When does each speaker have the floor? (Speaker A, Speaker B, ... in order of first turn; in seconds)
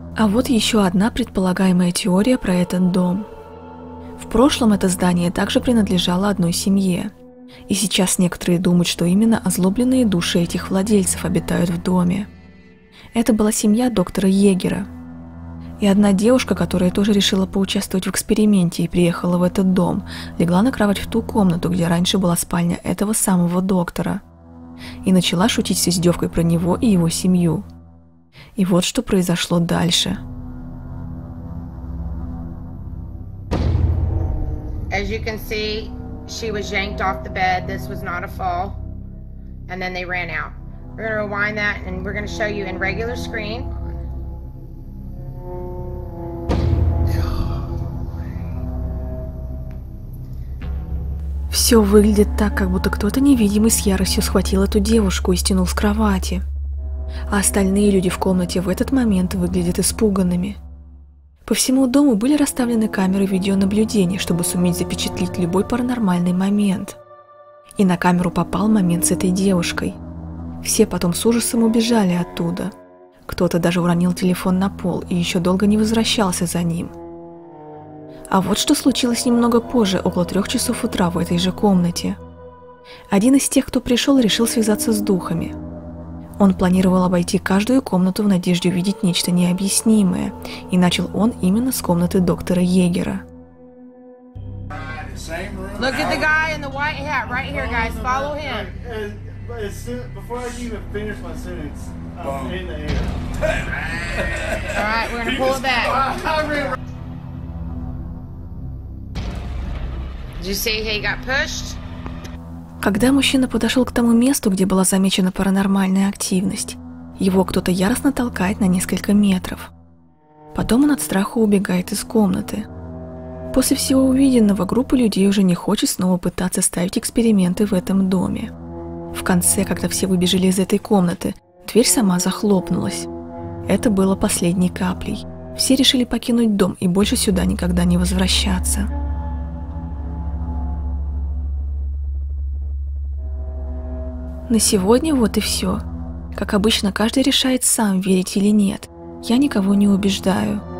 Speaker A: 0.2-3.3, 4.2-7.1, 7.7-12.3, 13.1-14.9, 15.8-24.2, 25.0-27.6, 28.6-30.2, 51.5-56.4, 57.3-60.6, 61.4-67.0, 67.8-70.0, 70.6-72.7, 73.3-76.9, 78.3-82.2, 83.1-85.5, 86.4-93.2, 112.8-119.7, 120.5-122.7, 123.5-128.5, 129.1-133.1, 133.7-138.9, 144.5-150.6
Speaker B: 34.9-38.8, 39.7-43.7, 95.6-98.7, 104.5-106.7, 110.4-111.8
Speaker C: 95.2-95.6, 97.5-103.2